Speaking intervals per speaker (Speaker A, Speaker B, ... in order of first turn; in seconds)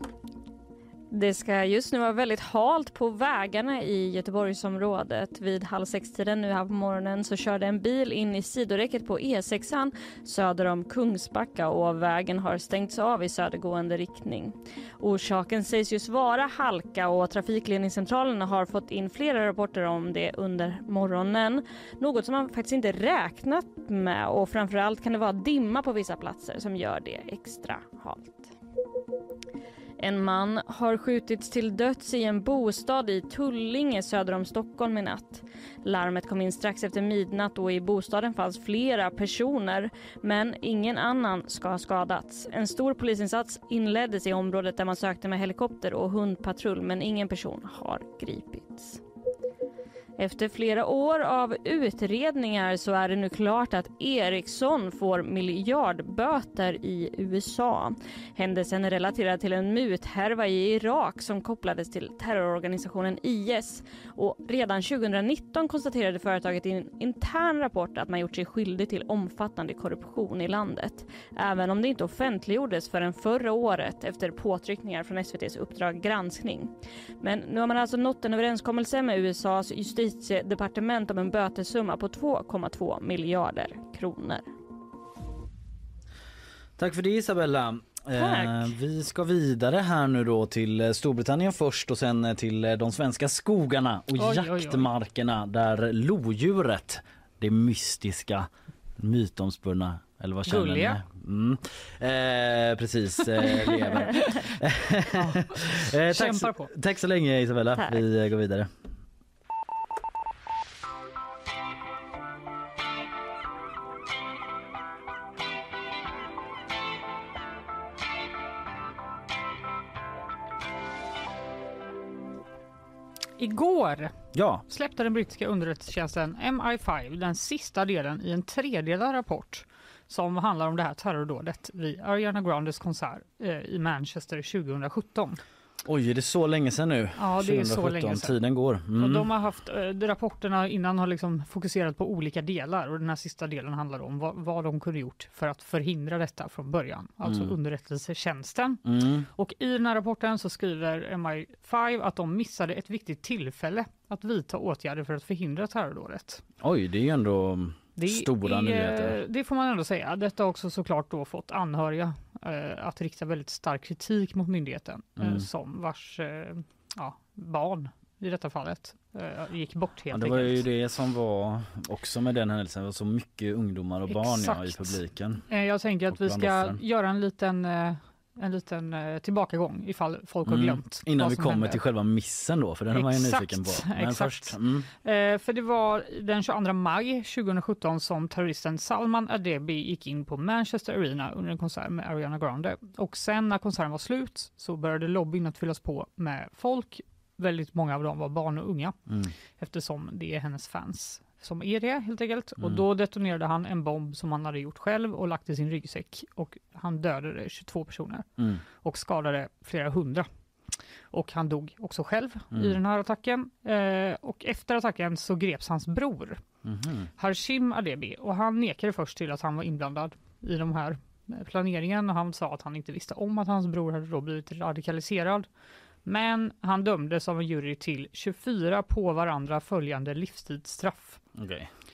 Speaker A: 1.1-28.5, 30.0-49.0, 50.2-84.4, 88.2-88.6
Speaker B: 86.8-108.7, 124.3-124.6, 135.8-139.3, 147.2-147.5, 148.8-149.3, 156.6-159.2, 165.2-165.5, 170.1-175.4, 176.1-176.8, 180.4-184.9, 199.1-199.3, 208.4-208.6, 212.5-212.8, 216.6-217.1, 231.3-231.7
Speaker C: 94.2-94.9, 100.5-101.0, 103.3-104.4, 105.2-106.7, 123.4-124.1, 124.7-135.4, 137.2-138.3, 139.0-148.8, 149.3-156.4, 157.9-170.6, 174.1-181.8, 182.9-199.0, 199.6-208.2, 208.8-210.3, 211.1-216.4, 217.2-225.5, 226.0-231.2